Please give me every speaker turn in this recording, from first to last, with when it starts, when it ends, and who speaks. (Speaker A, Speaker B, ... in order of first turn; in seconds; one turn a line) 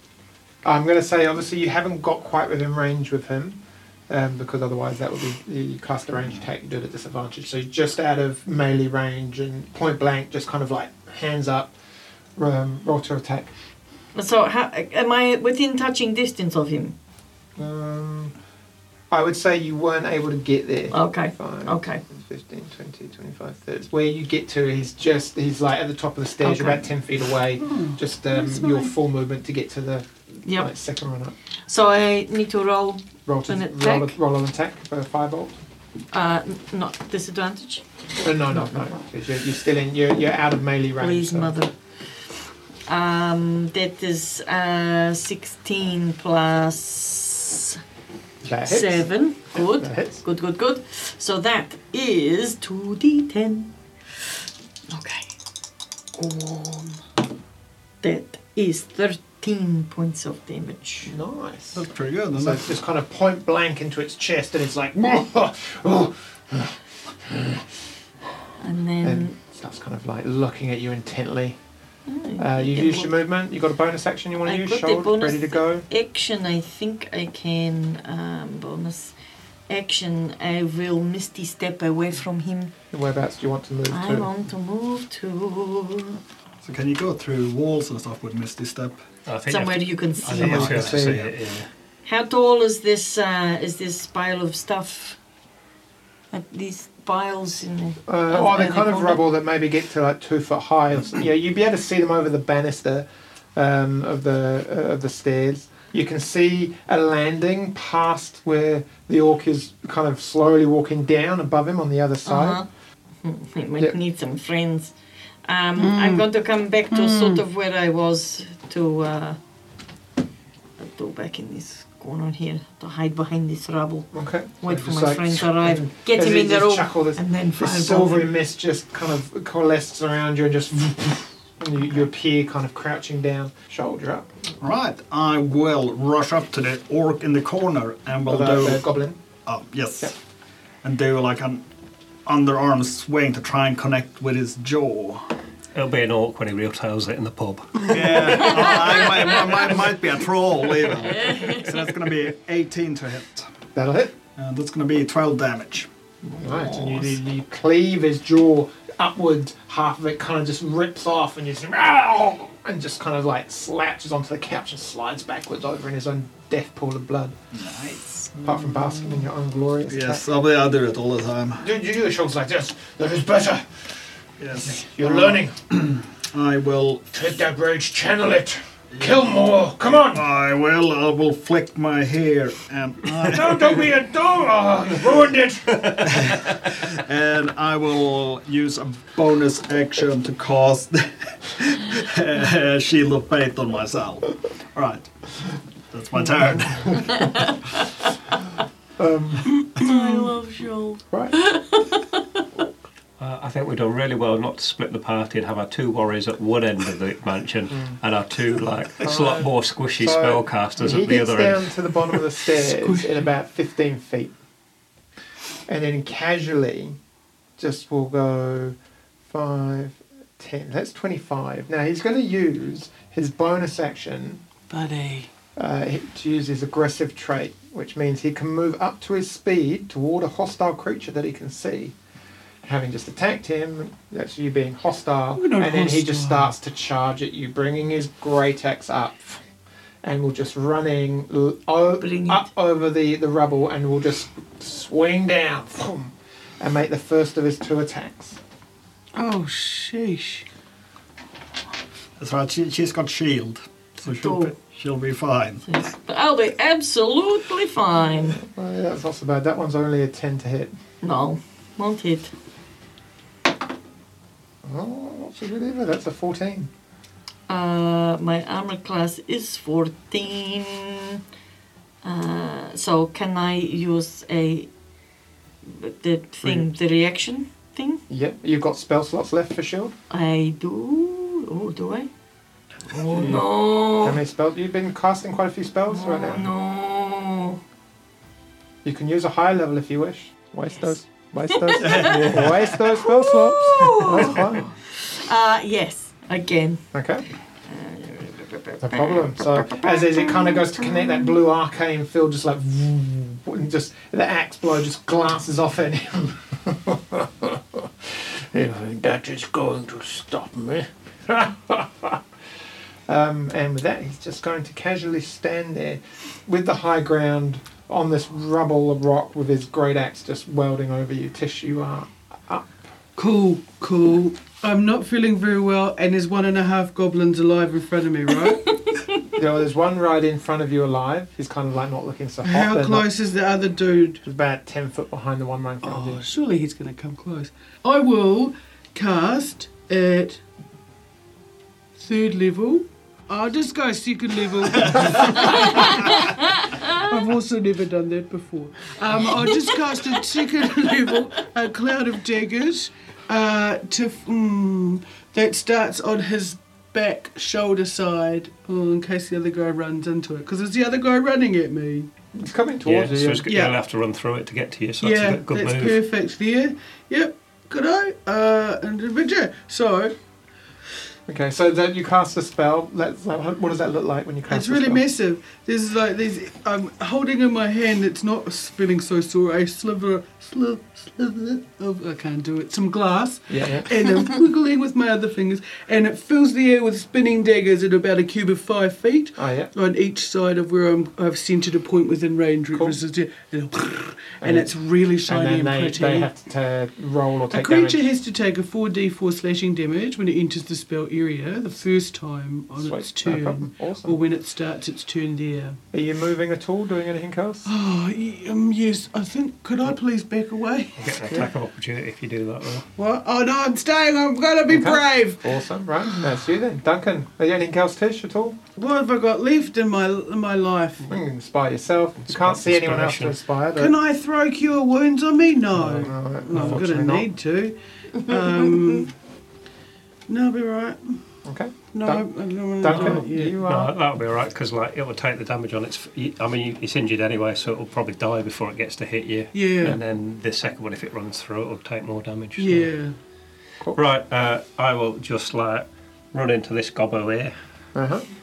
Speaker A: 0.6-11.7
Speaker A: 12.3-13.5
Speaker B: 14.1-16.9
Speaker A: 17.6-18.3
Speaker A: 19.1-31.3
Speaker B: 20.9-22.0
Speaker B: 26.4-26.8
Speaker C: 27.6-28.9
Speaker B: 30.4-30.7
Speaker B: 31.7-34.1
Speaker A: 33.2-35.6
Speaker B: 36.1-37.8
Speaker A: 38.2-41.5
Speaker B: 41.0-41.7
Speaker B: 42.9-47.8
Speaker A: 48.4-50.2
Speaker B: 48.6-53.7
Speaker B: 54.9-55.3
Speaker B: 56.1-57.0
Speaker B: 58.0-61.1
Speaker A: 61.0-67.7
Speaker D: 61.7-62.6
Speaker B: 68.6-69.3
Speaker A: 69.0-71.6
Speaker B: 72.1-73.1
Speaker A: 72.4-75.8
Speaker B: 74.4-79.1
Speaker B: 79.7-82.7
Speaker A: 82.9-84.3
Speaker B: 83.9-86.2
Speaker D: 86.6-89.0
Speaker E: 89.2-91.7
Speaker B: 89.5-90.7
Speaker D: 90.2-91.3
Speaker A: 90.2-91.2
Speaker B: 92.0-95.2
Speaker B: 96.3-99.2
Speaker A: 98.1-112.6
Speaker B: 112.2-112.7
Speaker B: 113.2-114.9
Speaker B: 115.4-119.4
Speaker C: 115.8-116.3
Speaker C: 116.9-117.4
Speaker B: 120.8-124.1
Speaker A: 124.1-134.3
Speaker B: 124.6-128.3
Speaker D: 134.6-138.8
Speaker A: 138.2-139.2
Speaker D: 139.4-140.2
Speaker D: 140.8-141.6
Speaker D: 142.2-145.3
Speaker E: 145.7-149.3
Speaker D: 147.8-153.5
Speaker B: 151.3-151.7
Speaker A: 153.7-154.1
Speaker D: 154.3-155.9
Speaker A: 156.3-167.3
Speaker D: 167.5-168.8
Speaker A: 168.4-170.2
Speaker D: 169.9-171.7
Speaker A: 171.6-173.9
Speaker D: 174.4-177.1
Speaker A: 174.6-175.6
Speaker A: 177.1-180.2
Speaker D: 178.9-179.2
Speaker D: 180.0-183.7
Speaker A: 183.2-186.3
Speaker D: 186.0-195.3
Speaker D: 195.9-197.5
Speaker A: 196.5-197.2
Speaker B: 197.1-197.8
Speaker A: 199.0-199.5
Speaker C: 199.6-200.3
Speaker B: 199.8-202.4
Speaker E: 203.2-211.7
Speaker A: 207.7-208.0
Speaker A: 209.0-214.3
Speaker C: 212.6-213.2
Speaker A: 215.7-217.0
Speaker A: 217.6-224.4
Speaker C: 224.7-225.3
Speaker A: 225.6-231.9
Speaker A: 232.6-239.4
Speaker C: 235.3-236.5
Speaker A: 240.0-248.4
Speaker B: 242.0-242.5
Speaker C: 249.1-250.4
Speaker D: 252.2-255.7
Speaker B: 254.0-254.5
Speaker B: 255.7-258.4
Speaker A: 258.1-260.7
Speaker B: 261.0-262.3
Speaker A: 264.6-266.7
Speaker B: 267.5-271.2
Speaker B: 272.0-274.7
Speaker B: 275.6-278.0
Speaker A: 278.1-279.9
Speaker B: 280.1-282.1
Speaker B: 282.9-284.2
Speaker A: 283.0-286.5
Speaker B: 285.9-287.6
Speaker A: 288.8-294.7
Speaker B: 291.5-296.8
Speaker D: 291.8-292.7
Speaker A: 296.9-297.2
Speaker B: 297.7-301.2
Speaker A: 298.8-312.2
Speaker A: 313.1-322.8
Speaker C: 323.1-328.8
Speaker A: 329.3-333.1
Speaker C: 332.4-334.2
Speaker A: 334.2-336.2
Speaker C: 335.8-340.4
Speaker C: 341.9-362.1
Speaker B: 345.6-347.0
Speaker A: 362.3-363.5
Speaker E: 362.8-366.0
Speaker C: 363.4-363.8
Speaker C: 365.0-370.1
Speaker A: 371.3-375.0
Speaker C: 374.5-396.3
Speaker A: 383.5-384.1
Speaker A: 389.4-389.7
Speaker A: 392.7-393.0
Speaker A: 394.4-394.7
Speaker A: 395.2-398.0
Speaker C: 397.5-405.8
Speaker A: 402.8-404.2
Speaker A: 405.9-407.7
Speaker C: 407.6-411.4
Speaker E: 411.0-412.9
Speaker C: 412.9-415.5
Speaker A: 414.7-418.6
Speaker C: 418.7-421.1
Speaker A: 421.1-423.9
Speaker E: 422.2-423.4
Speaker C: 423.7-429.1
Speaker A: 425.7-427.3
Speaker E: 426.5-426.8
Speaker C: 430.3-431.2
Speaker A: 431.4-432.2
Speaker C: 431.9-433.6
Speaker A: 432.8-433.9
Speaker E: 432.9-442.9
Speaker C: 439.5-440.0
Speaker C: 442.6-443.1
Speaker E: 443.9-447.5
Speaker A: 447.9-448.2